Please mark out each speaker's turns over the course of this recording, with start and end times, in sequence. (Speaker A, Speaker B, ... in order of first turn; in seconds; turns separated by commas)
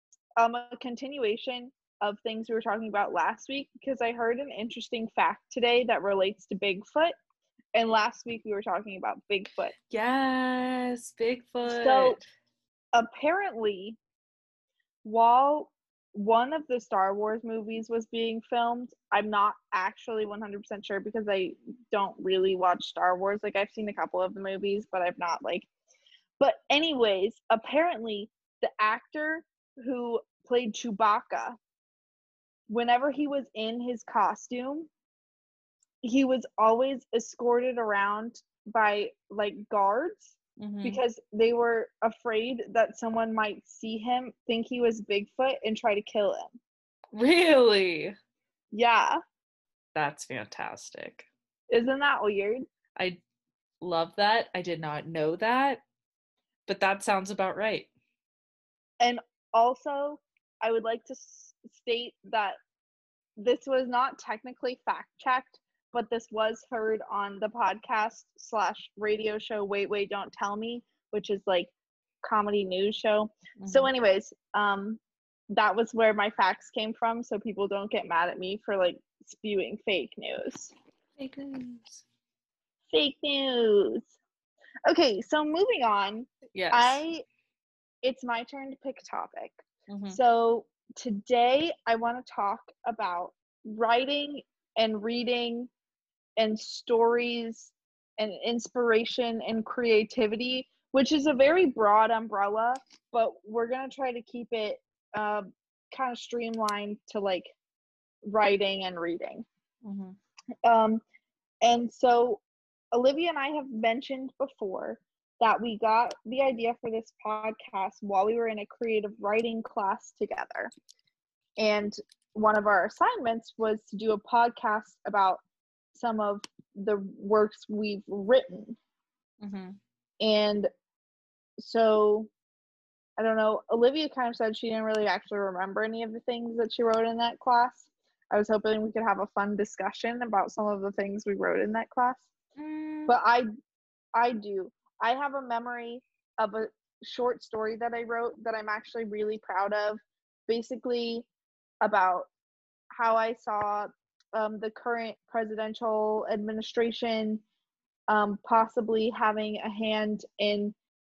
Speaker A: 0.4-7.2, Speaker A: 7.7-9.7, Speaker B: 9.9-12.2, Speaker A: 11.7-12.2, Speaker A: 12.9-14.0, Speaker A: 15.0-25.7, Speaker A: 26.4-31.6, Speaker A: 32.7-34.9, Speaker A: 36.0-46.6, Speaker B: 40.6-41.0, Speaker B: 47.1-48.1, Speaker A: 48.7-49.2, Speaker B: 50.0-51.3, Speaker A: 51.7-52.7, Speaker B: 53.0-53.2, Speaker B: 53.8-55.8, Speaker B: 56.7-57.9, Speaker A: 59.0-62.6, Speaker A: 63.4-71.7, Speaker A: 72.2-75.0, Speaker B: 73.6-73.9, Speaker A: 75.5-80.7, Speaker B: 81.2-82.0, Speaker A: 82.9-84.1, Speaker A: 84.9-87.2, Speaker B: 86.5-87.0, Speaker A: 88.0-95.7, Speaker B: 89.9-90.2, Speaker A: 96.4-107.5, Speaker A: 108.3-109.5, Speaker B: 109.8-110.2, Speaker A: 110.6-111.0, Speaker A: 111.6-120.7, Speaker A: 121.6-125.4, Speaker A: 125.9-128.8, Speaker B: 129.4-129.8, Speaker A: 130.2-130.7, Speaker A: 131.6-132.3, Speaker A: 133.2-142.3, Speaker B: 142.6-143.1, Speaker A: 143.1-143.5, Speaker A: 144.2-151.3, Speaker A: 151.8-152.3, Speaker A: 153.0-157.4, Speaker A: 158.1-160.8